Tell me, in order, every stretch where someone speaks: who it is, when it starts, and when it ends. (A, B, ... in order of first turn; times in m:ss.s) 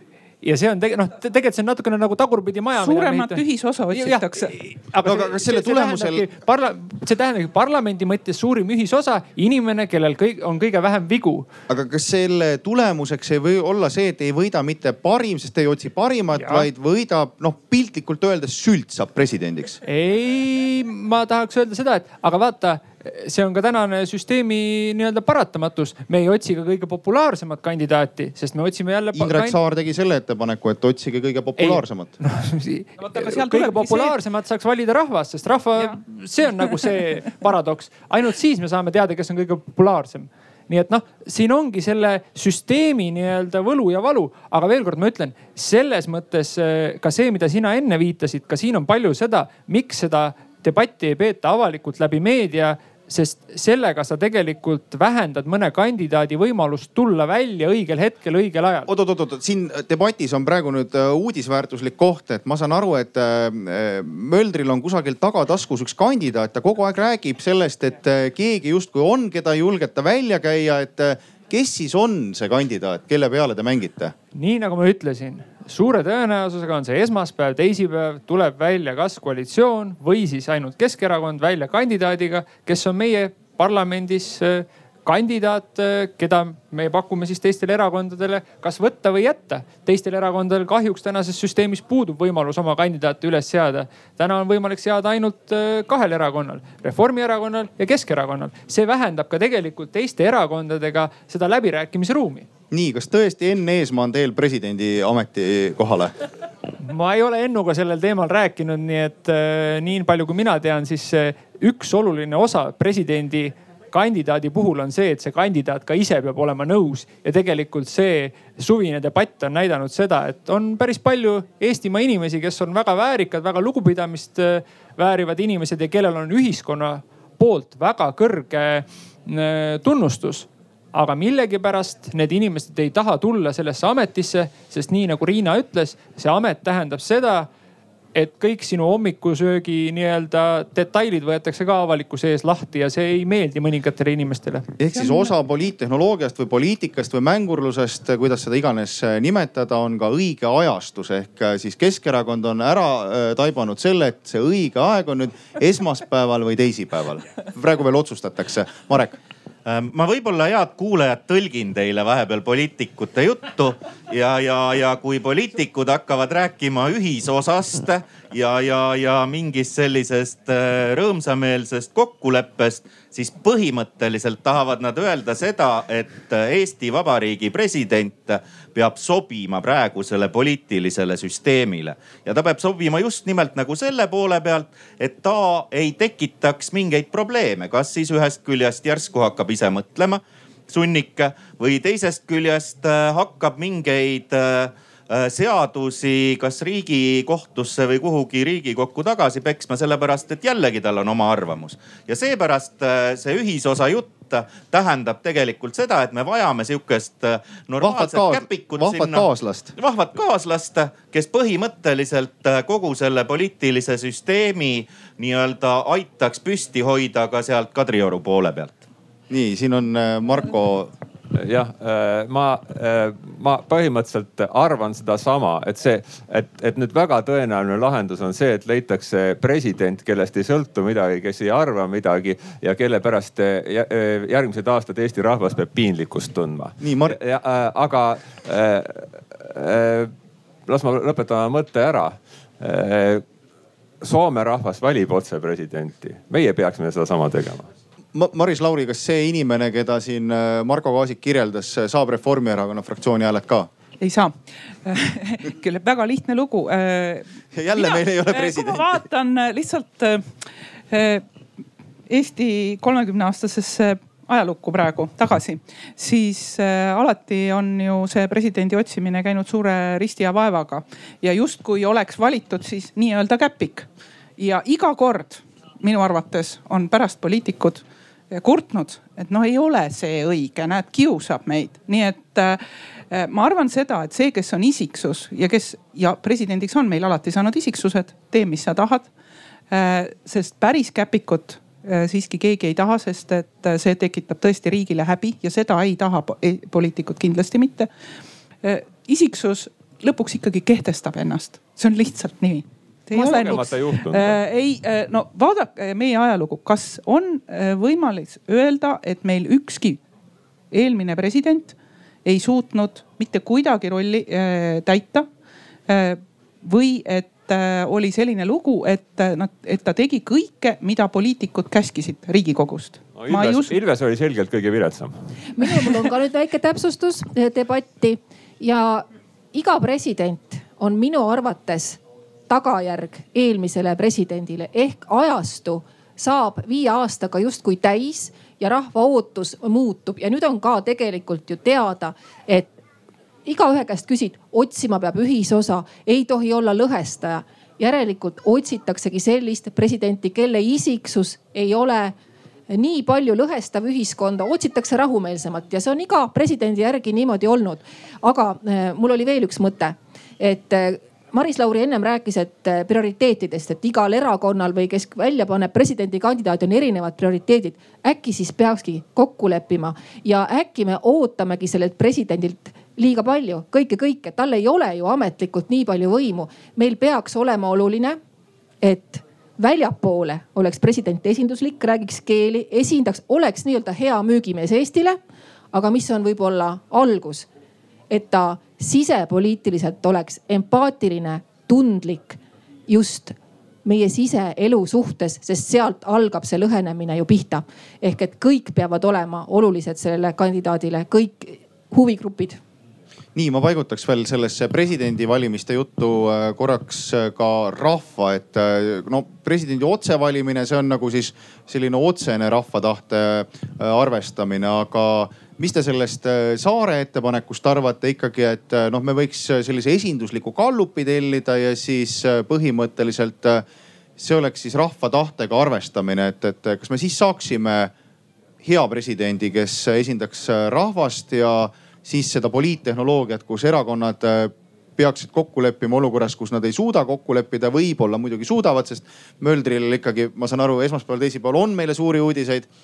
0:00.4-0:11.5 A
0:02.8-0:04.6 B
0:05.0-0:06.3 C
0:11.7-0:19.8 C
0:16.4-0:16.7 A
0:19.9-0:29.6 A
0:29.1-0:32.1 C
0:31.6-0:58.9 A
0:33.0-0:34.2 B
0:58.9-1:14.1 C
1:14.3-1:42.5 A
1:42.7-1:46.1 C
1:46.8-2:17.5 A
2:18.2-2:24.7 A
2:24.8-2:39.2 C
2:25.0-2:25.3 B
2:39.7-3:38.8 D
3:27.8-3:29.8 C
3:39.3-3:40.9 C
3:41.3-4:00.1 E
3:56.8-3:57.2 C
4:00.7-4:03.2 E
4:04.0-4:07.7 E
4:08.1-4:13.7 C
4:14.0-4:21.2 B
4:17.5-4:18.9 C
4:22.1-4:49.1 B
4:49.7-4:57.9 B
4:58.6-5:10.0 B
5:03.1-5:04.4 E
5:10.7-5:15.3 B
5:15.9-5:23.8 B
5:23.1-5:25.1 E
5:25.6-5:42.7 F
5:43.4-5:52.2 F
5:52.7-6:18.2 F
6:18.8-6:25.2 F
6:25.7-6:27.5 F
6:28.1-6:42.6 F
6:43.4-7:03.6 C
7:04.2-7:07.9 C
7:08.6-7:22.7 C